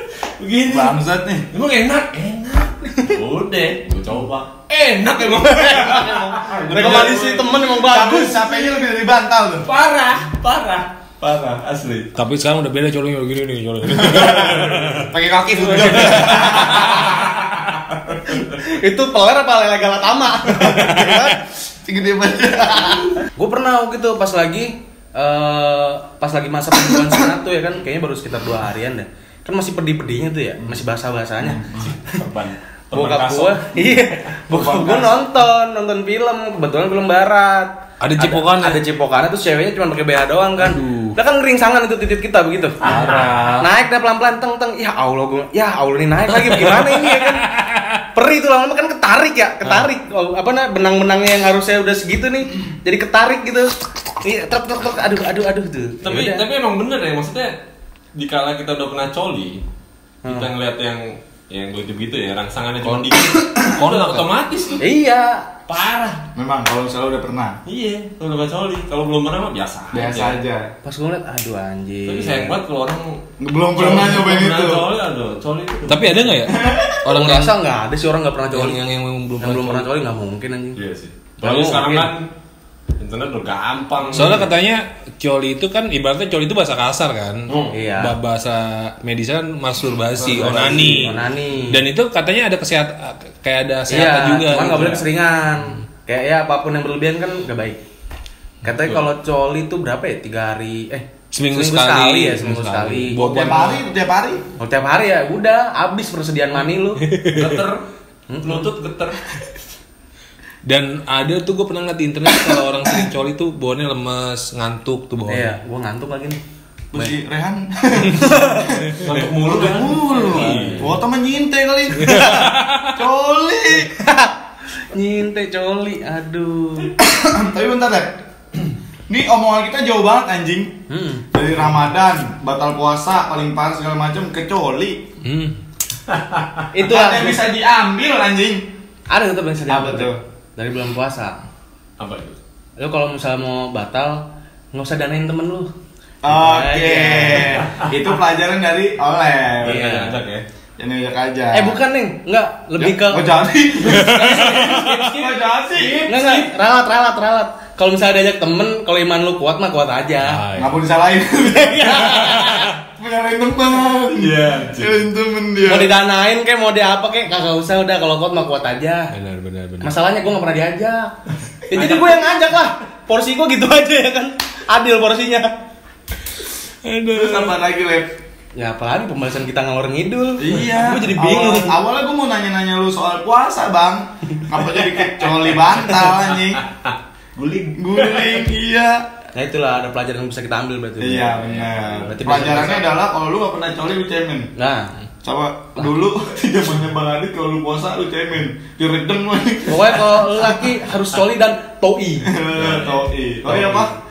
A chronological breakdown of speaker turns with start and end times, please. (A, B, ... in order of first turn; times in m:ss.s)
0:00.4-0:01.0 A
0:00.7-0:01.5 B
0:01.5-0:07.4 A
0:05.2-0:08.6 C
0:06.4-0:09.7 B
0:09.6-0:12.2 A
0:12.2-0:15.1 D
0:13.9-0:17.2 B
0:14.6-0:18.4 A
0:15.8-0:17.1 D
0:18.6-0:21.4 C
0:20.5-0:23.2 B
0:23.4-0:32.1 C
0:31.4-0:31.9 B
0:31.8-0:34.1 A
0:32.9-0:47.5 C
0:34.5-0:35.2 B
0:38.0-0:38.8 D
0:40.6-0:41.2 D
0:42.8-0:43.7 D
0:42.8-0:43.2 A
0:46.3-0:48.0 D
0:48.1-0:56.4 C
0:49.6-0:49.9 D
0:56.0-0:57.5 A
0:58.2-0:59.6 A
1:00.2-1:00.5 C
1:00.3-1:04.8 A
1:03.2-1:03.8 B
1:03.7-1:04.3 D
1:04.8-1:05.6 C
1:05.7-1:06.2 A
1:06.4-1:07.6 B
1:07.7-1:10.4 A
1:09.9-1:10.7 B
1:10.8-1:12.6 C
1:12.1-1:13.2 A
1:13.4-1:14.9 B
1:13.8-1:16.5 A
1:15.9-1:17.6 D
1:16.5-1:17.0 B
1:17.1-1:18.8 C
1:18.5-1:19.9 D
1:19.4-1:20.8 C
1:20.8-1:22.3 A
1:21.4-1:22.1 C
1:23.0-1:24.5 A
1:24.1-1:24.5 C
1:24.1-1:35.0 D
1:27.5-1:27.8 A
1:27.7-1:28.2 C
1:30.2-1:31.2 A
1:30.4-1:31.8 C
1:33.9-1:37.8 C
1:38.6-1:43.2 C
1:38.7-1:39.0 A
1:41.3-1:43.8 D
1:43.1-1:44.4 B
1:44.6-1:47.0 C
1:47.0-1:47.6 D
1:47.3-1:47.9 A
1:48.3-1:48.7 C
1:48.4-1:49.5 A
1:50.6-1:55.5 D
1:55.3-1:56.4 C
1:56.9-2:04.0 B
1:58.1-1:58.6 C
1:59.0-2:00.9 A
2:00.2-2:00.9 C
2:02.0-2:03.0 D
2:02.1-2:02.5 C
2:04.0-2:04.3 C
2:04.9-2:07.0 C
2:07.0-2:08.2 B
2:09.1-2:15.0 B
2:10.9-2:11.3 C
2:15.2-2:15.6 D
2:16.1-2:16.7 A
2:16.7-2:17.5 C
2:16.8-2:18.7 B
2:19.1-2:21.4 C
2:19.7-2:20.2 B
2:22.0-2:22.4 A
2:22.8-2:25.7 C
2:26.2-2:29.8 B
2:26.3-2:27.9 C
2:29.6-2:30.4 A
2:29.6-2:30.2 C
2:30.8-2:31.8 B
2:31.5-2:33.4 C
2:32.8-2:36.1 B
2:33.8-2:35.3 D
2:34.1-2:35.1 A
2:35.8-2:36.2 A
2:36.0-2:36.5 D
2:36.1-2:40.4 C
2:40.2-2:40.8 D
2:40.6-2:46.0 B
2:41.5-2:42.6 C
2:42.1-2:42.7 D
2:44.2-2:45.0 A
2:45.6-2:49.1 C
2:49.1-2:49.9 D
2:49.8-2:51.1 C
2:51.7-2:55.5 C
2:56.8-2:57.6 D
2:57.1-2:58.2 B
2:58.6-3:01.8 C
3:00.4-3:06.6 B
3:06.5-3:08.4 A
3:07.8-3:09.1 B
3:09.4-3:11.4 C
3:11.0-3:14.5 B
3:11.4-3:12.4 A
3:12.0-3:12.9 C
3:14.6-3:14.9 C
3:15.2-3:20.5 B
3:19.7-3:22.3 C
3:22.2-3:23.9 B
3:22.6-3:23.0 A
3:23.5-3:24.0 C